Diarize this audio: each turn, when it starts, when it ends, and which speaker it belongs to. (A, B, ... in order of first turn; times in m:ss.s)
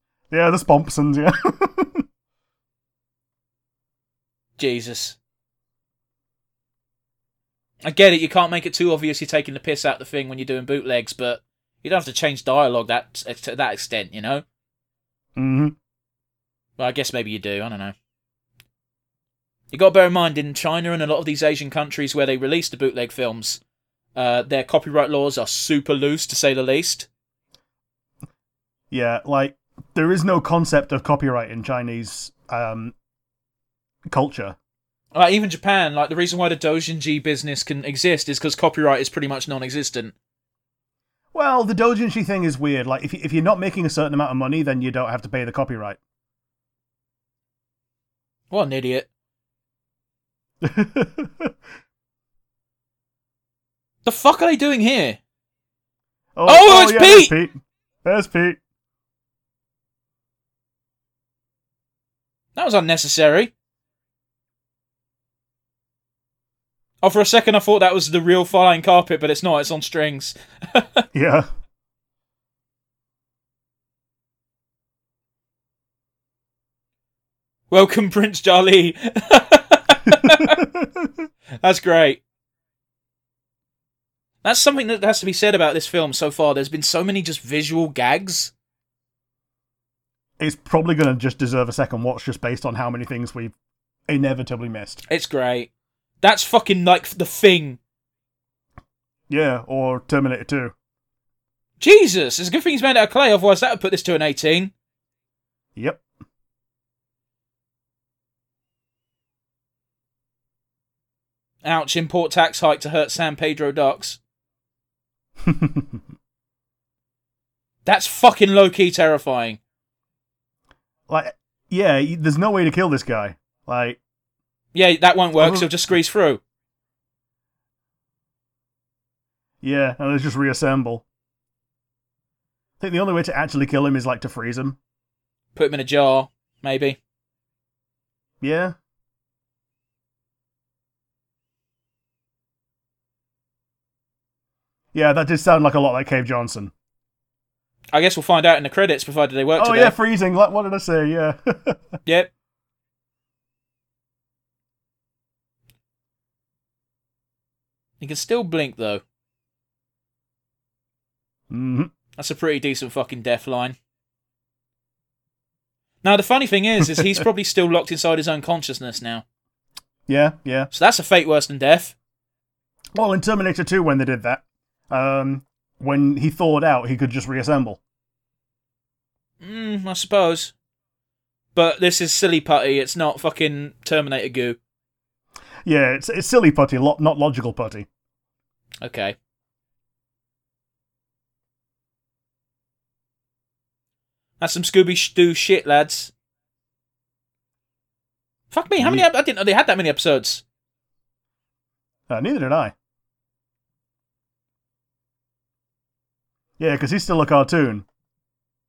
0:00.3-0:02.0 A
0:04.6-0:05.2 B
0:07.8-0:14.4 B
0:15.4-0:15.8 A
0:16.8-0:18.0 B
0:19.7-0:23.6 B
0:24.2-0:27.1 B
0:28.9-0:33.0 A
0:34.1-0:34.6 A
0:35.1-0:40.1 B
0:41.3-0:46.0 A
0:48.5-0:49.1 B
0:50.6-0:51.6 A
0:54.0-0:55.2 B
0:56.4-0:58.6 A
0:56.5-0:57.3 B
1:02.6-1:03.5 B
1:07.0-1:11.0 B
1:11.1-1:11.5 A
1:17.7-1:20.6 B
1:20.1-1:21.3 A
1:21.6-1:22.2 B
1:24.4-1:28.5 B
1:30.4-1:33.5 A
1:34.1-1:35.0 A
1:35.1-1:35.7 B
1:36.2-1:37.8 B
1:39.3-1:40.8 A
1:41.8-1:44.7 B
1:45.8-1:46.0 A
1:51.6-1:54.2 B
1:55.4-1:56.0 A
1:57.8-1:59.6 B
2:01.1-2:04.0 A
2:04.7-2:06.4 B
2:05.4-2:05.7 A
2:09.6-2:11.0 A
2:12.8-2:14.8 A
2:15.6-2:17.0 B
2:18.4-2:18.8 A
2:24.9-2:26.7 A
2:27.9-2:30.0 B
2:29.6-2:31.9 A
2:38.0-2:39.0 B
2:41.5-2:41.9 A
2:42.2-2:43.8 B
2:46.0-2:49.2 B
2:50.1-2:50.7 A
2:50.7-2:52.0 B
2:52.9-2:57.8 A
2:59.4-3:00.5 B
3:01.6-3:04.6 B
3:05.6-3:07.9 A
3:08.8-3:09.2 B
3:14.4-3:16.1 B
3:18.5-3:20.4 B
3:18.8-3:19.1 A
3:22.1-3:22.7 A
3:26.6-3:27.8 A